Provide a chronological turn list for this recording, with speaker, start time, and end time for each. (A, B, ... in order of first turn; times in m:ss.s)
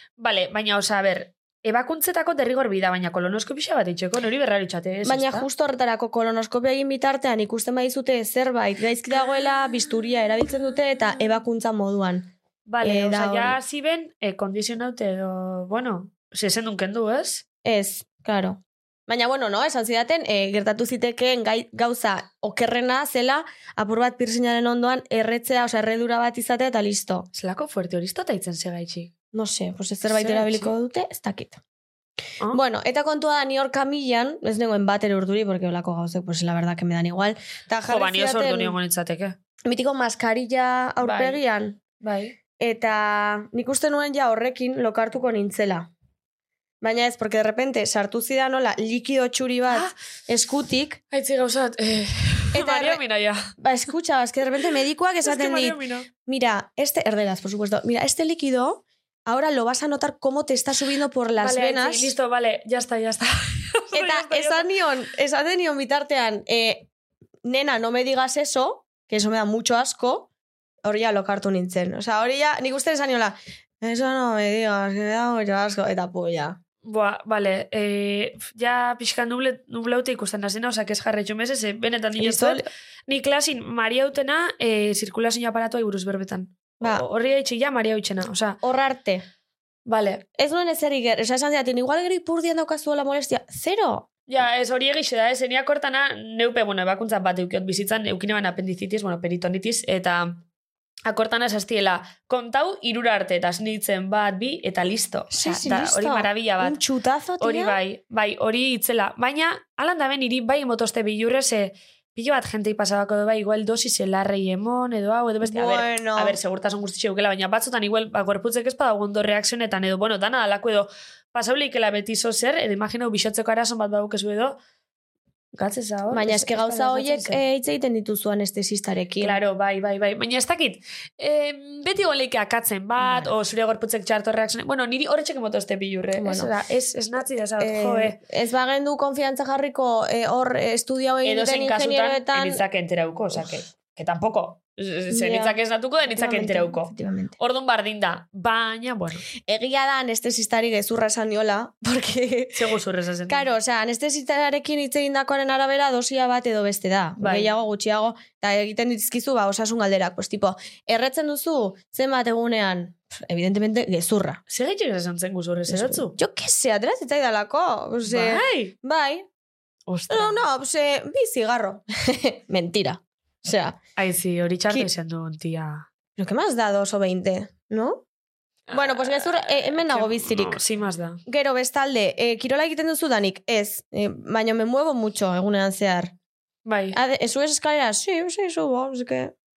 0:00.2-0:05.5 A
0:05.0-0:13.6 B
0:12.7-0:17.4 A
0:17.6-0:27.3 B
0:27.3-0:29.1 A
0:29.3-0:31.6 B
0:30.1-0:30.7 A
0:32.5-0:38.7 B
0:37.9-0:39.4 A
0:39.6-0:41.8 B
0:41.0-0:41.4 A
0:42.0-0:42.3 A
0:42.6-0:45.9 B
0:46.8-0:51.0 B
0:49.7-0:49.9 A
0:51.1-0:53.5 A
0:52.5-0:53.0 B
0:53.6-1:02.1 B
0:55.2-0:56.1 A
1:01.4-1:04.7 A
1:03.9-1:06.9 B
1:07.4-1:10.3 B
1:10.8-1:16.6 B
1:16.8-1:28.6 A
1:22.2-1:22.7 B
1:28.6-1:29.2 B
1:29.9-1:30.2 A
1:30.4-1:34.1 B
1:34.3-1:40.4 A
1:41.1-1:46.8 A
1:45.3-1:47.8 B
1:47.4-2:04.6 A
1:55.4-1:56.4 B
2:05.5-2:07.4 A
2:06.1-2:09.4 B
2:09.2-2:18.2 A
2:13.0-2:13.3 B
2:16.1-2:16.5 B
2:17.6-2:22.6 B
2:21.2-2:29.2 A
2:25.1-2:27.3 B
2:29.4-2:32.7 B
2:32.5-2:33.4 A
2:33.3-2:44.4 B
2:37.2-2:37.5 A
2:44.5-2:46.2 A
2:45.7-2:49.3 B
2:48.0-2:48.7 A
2:49.9-2:50.4 A
2:50.1-2:53.8 B
2:54.0-2:55.9 A
2:56.2-2:58.0 B
2:58.7-3:01.2 A
2:58.7-3:00.6 B
3:01.2-3:06.1 B
3:06.6-3:07.0 A
3:06.9-3:09.3 B